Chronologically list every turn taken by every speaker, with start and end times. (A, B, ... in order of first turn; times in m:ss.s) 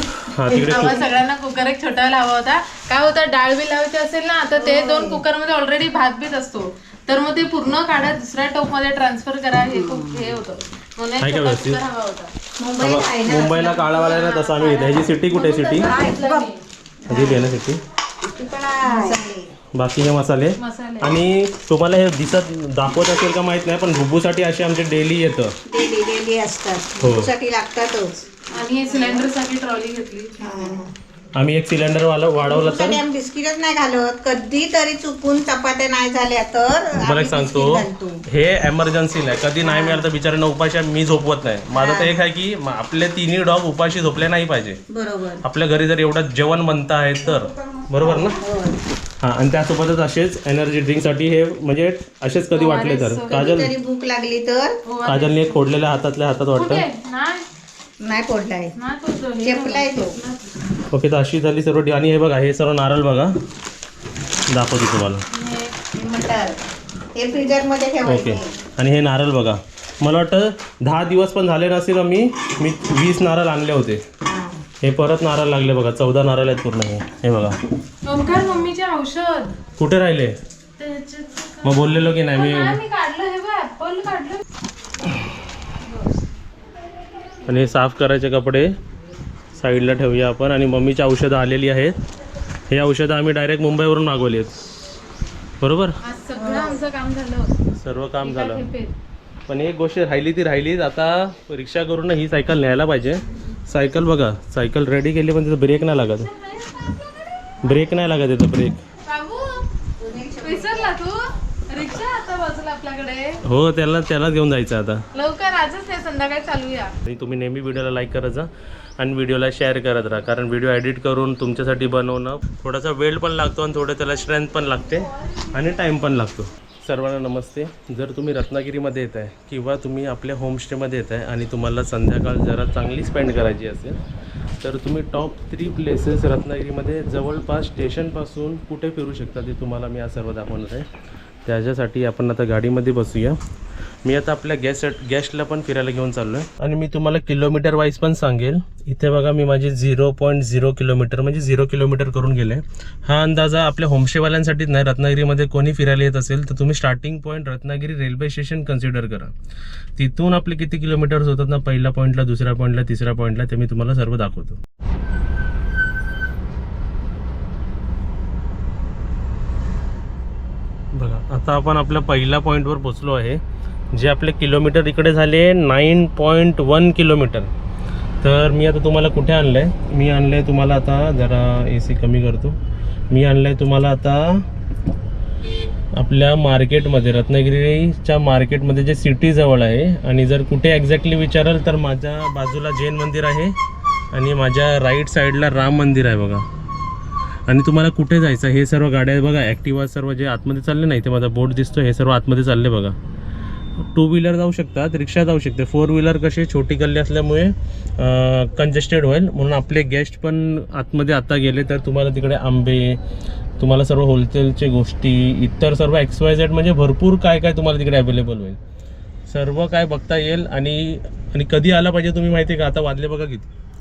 0:00.2-0:01.0 A
0:00.5-0:12.3 B
0:00.6-0:00.9 C
0:04.6-0:05.2 C
0:11.2-0:11.8 A
0:12.6-0:14.0 C
0:12.8-0:15.9 A
0:13.8-0:16.6 B
0:15.8-0:16.5 C
0:17.0-0:17.5 C
0:17.1-0:17.8 A
0:18.2-0:19.5 C
0:18.9-0:19.2 B
0:19.7-0:25.6 A
0:20.6-0:21.2 B
0:25.7-0:28.3 C
0:27.0-0:27.3 A
0:28.5-0:30.5 B
0:28.9-0:29.2 C
0:30.4-0:30.9 C
0:31.4-0:33.0 A
0:32.4-0:38.2 C
0:37.0-0:44.8 A
0:39.6-0:40.1 C
0:41.7-0:42.2 C
0:44.9-0:45.4 C
0:45.4-0:48.4 A
0:48.0-0:48.8 C
0:49.2-0:53.7 A
0:52.5-0:53.4 B
0:53.3-0:54.8 C
0:54.9-0:55.7 B
0:55.1-0:56.8 A
0:56.5-0:57.5 B
0:58.0-0:58.7 C
0:58.8-1:00.5 B
0:59.4-1:00.2 C
1:00.9-1:03.3 A
1:04.5-1:05.3 A
1:05.3-1:05.8 B
1:05.9-1:06.6 C
1:07.2-1:08.5 C
1:08.0-1:14.0 A
1:14.2-1:14.6 C
1:14.8-1:17.6 A
1:18.0-1:19.6 B
1:18.2-1:18.7 C
1:19.8-1:20.4 A
1:20.8-1:24.4 B
1:21.6-1:22.8 A
1:27.5-1:28.8 A
1:29.5-1:32.0 A
1:32.7-1:34.6 A
1:35.6-1:36.0 A
1:36.0-1:37.6 B
1:36.4-1:36.8 C
1:37.7-1:38.6 A
1:38.2-1:39.0 B
1:39.5-1:46.3 A
1:45.8-1:47.0 B
1:47.6-1:48.8 A
1:49.1-1:49.7 B
1:50.0-1:50.9 C
1:50.4-1:53.4 B
1:53.4-1:55.0 A
1:55.1-1:57.0 B
1:57.1-2:14.0 A
2:14.6-2:20.9 A
2:21.5-2:23.4 A
2:24.0-2:39.3 A
2:40.0-2:44.6 A
2:50.9-2:53.4 A
2:53.9-2:57.5 A
2:58.2-3:02.6 A
3:03.1-3:04.4 A
3:06.0-3:13.6 A
3:14.1-3:16.4 A
3:17.5-3:23.0 A
3:23.8-3:33.0 A
3:33.6-3:38.6 A
3:39.3-3:43.5 A